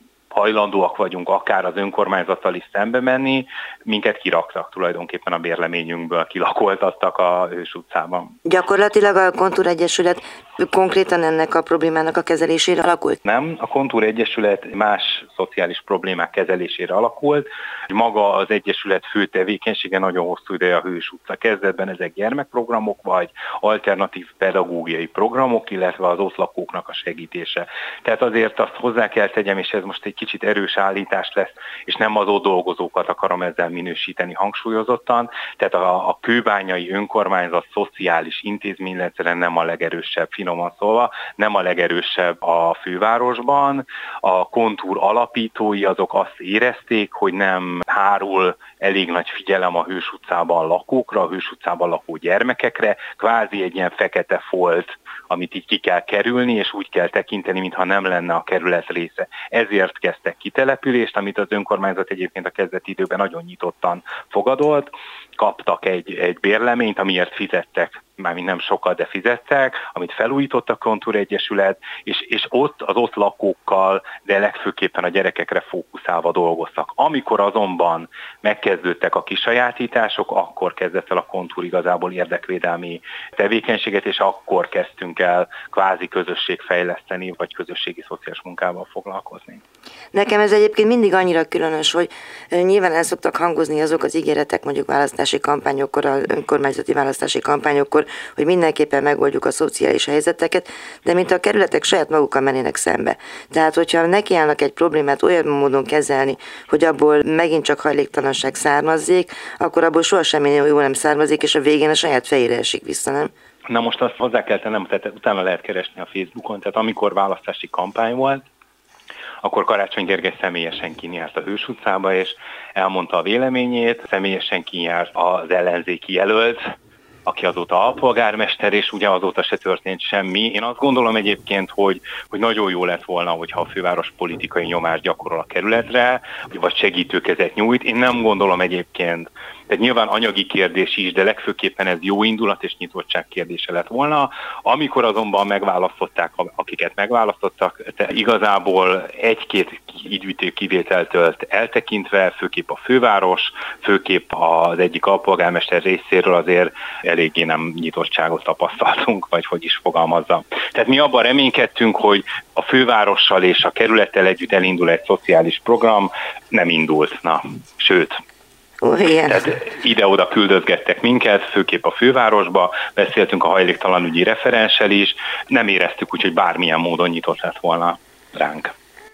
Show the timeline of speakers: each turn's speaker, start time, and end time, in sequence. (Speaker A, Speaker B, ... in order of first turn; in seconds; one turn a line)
Speaker A: 0.3-8.3
Speaker B: 8.4-13.2
Speaker A: 13.2-89.6
Speaker B: 90.1-113.3
Speaker A: 113.7-118.5
Speaker A: 119.4-126.7
Speaker A: 127.3-168.2
Speaker B: 168.8-169.4
Speaker A: 169.3-178.7